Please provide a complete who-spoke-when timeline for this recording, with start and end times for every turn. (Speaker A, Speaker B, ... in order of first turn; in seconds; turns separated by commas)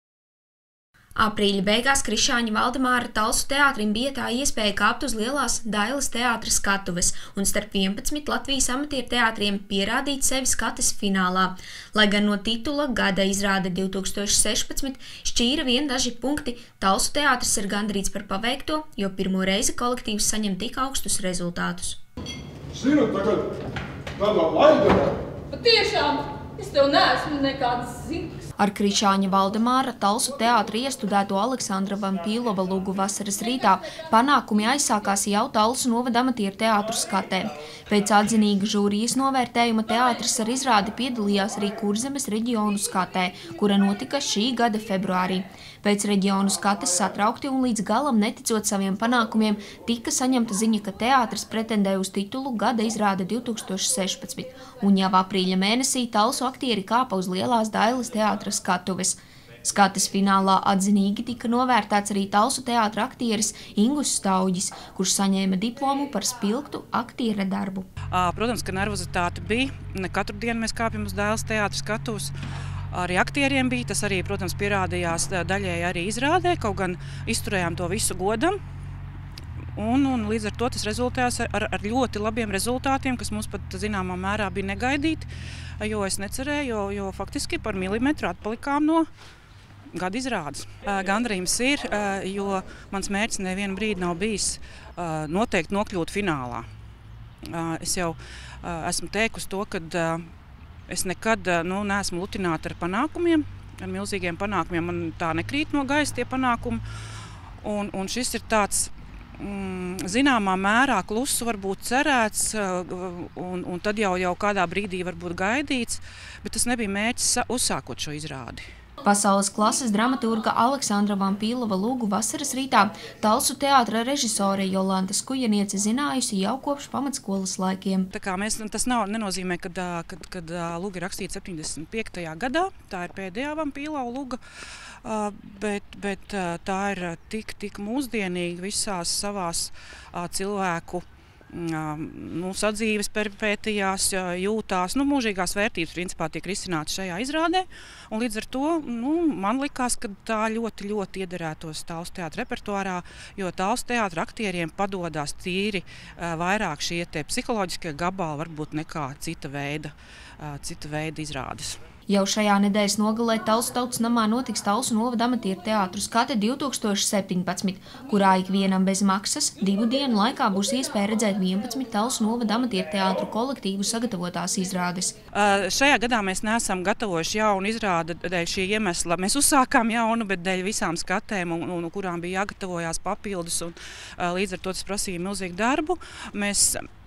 Speaker A: 1.2-22.0, Speaker B: 25.5-28.3, Speaker A: 28.6-67.9, Speaker C: 68.1-72.3, Speaker C: 72.9-78.6, Speaker C: 79.8-85.3, Speaker C: 85.8-89.1, Speaker C: 90.0-96.7, Speaker C: 97.5-100.2, Speaker C: 100.9-106.8, Speaker C: 107.6-118.7, Speaker A: 119.0-128.1, Speaker C: 128.1-134.4, Speaker C: 135.1-161.8, Speaker A: 162.1-175.2, Speaker C: 175.3-186.8